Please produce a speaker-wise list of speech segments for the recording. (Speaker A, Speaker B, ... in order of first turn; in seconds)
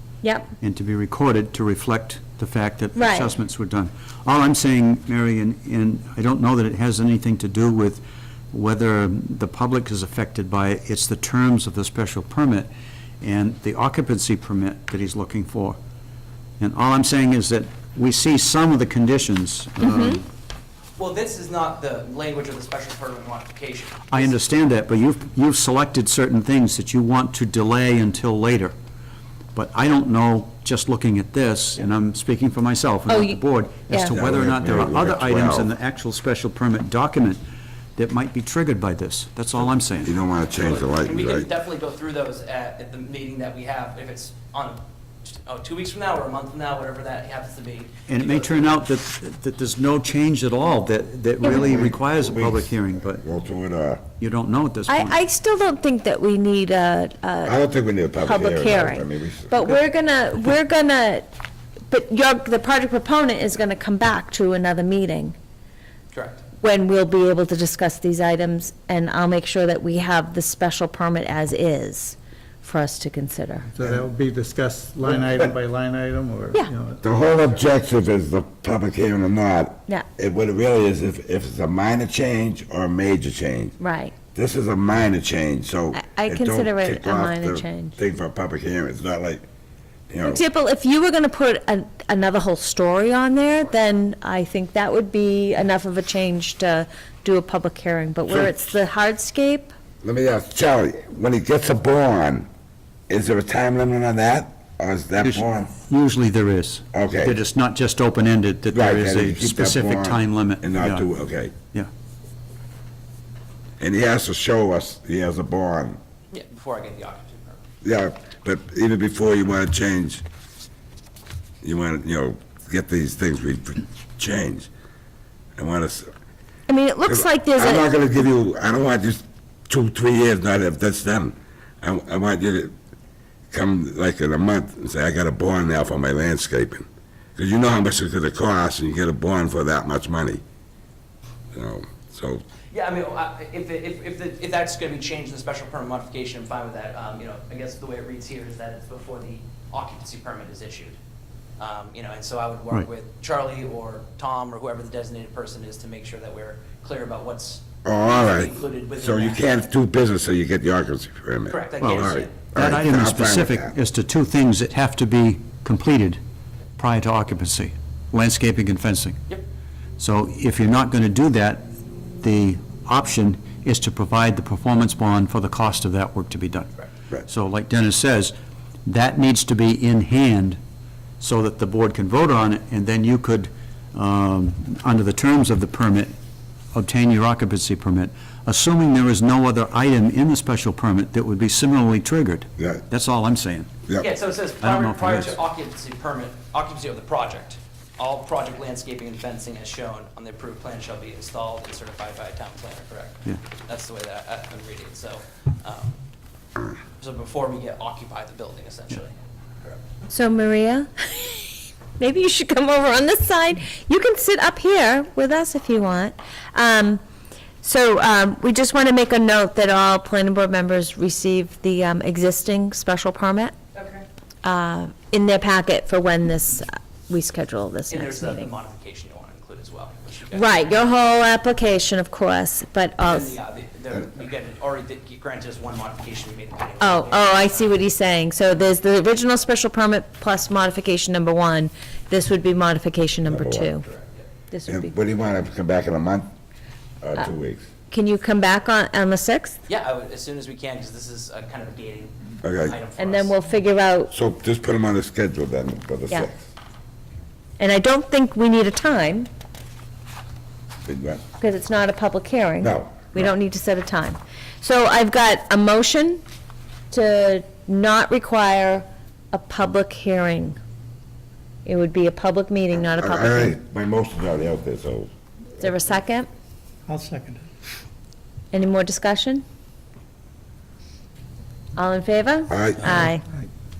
Speaker A: 0.2-0.5, 3.0-3.3, 19.8-20.2, 33.1-34.1, 51.4-51.7, 54.9-57.5, 58.2-61.3, 61.9-65.3, 66.6-73.7, 83.8-84.1, 85.9-88.0, 90.2-99.7, 126.7-127.9, 210.1-217.0, 217.6-223.6, 224.4-228.5, 230.3-233.3, 236.8-243.8, 244.5-244.9, 247.9-249.6, 253.0-254.1, 257.6-259.3, 261.4-266.2, 266.9-270.6, 271.6-273.6, 275.6-276.3, 278.5-279.4, 281.8-283.2
Speaker B: 0.6-12.7, 13.2-15.8, 16.6-20.2, 24.1-28.7, 29.5-37.4, 38.0-40.1, 48.1-53.2, 54.2-55.1, 105.2-111.1, 161.8-166.2, 166.8-169.2, 170.0-176.7, 177.3-178.3, 178.8-180.6, 181.2-186.1, 186.7-193.7, 194.6-195.3
Speaker C: 21.0-24.4, 40.6-48.8, 66.1-66.4, 116.3-117.6, 142.7-151.0, 151.6-159.4, 161.5-162.4, 194.0-206.0, 207.0-209.1, 227.9-230.6, 233.0-237.7, 249.7-253.3
Speaker D: 34.1-35.7, 40.0-41.5, 51.5-54.0, 57.4-59.6, 77.0-83.7, 84.3-89.4, 90.1-90.4, 98.3-98.5, 100.0-102.5, 103.1-105.7, 106.9-107.4, 108.7-111.5, 113.8-116.0, 117.8-120.2, 121.6-124.7, 125.5-126.1, 127.0-132.7, 133.5-136.8, 137.4-140.4, 141.5-142.4, 157.8-163.7, 243.2-243.9, 244.7-246.3, 247.0-247.7, 252.4-252.8, 254.1-256.4, 260.8-261.2, 262.6-263.1, 273.0-275.1, 282.5-283.1
Speaker E: 73.7-77.0, 276.9-277.4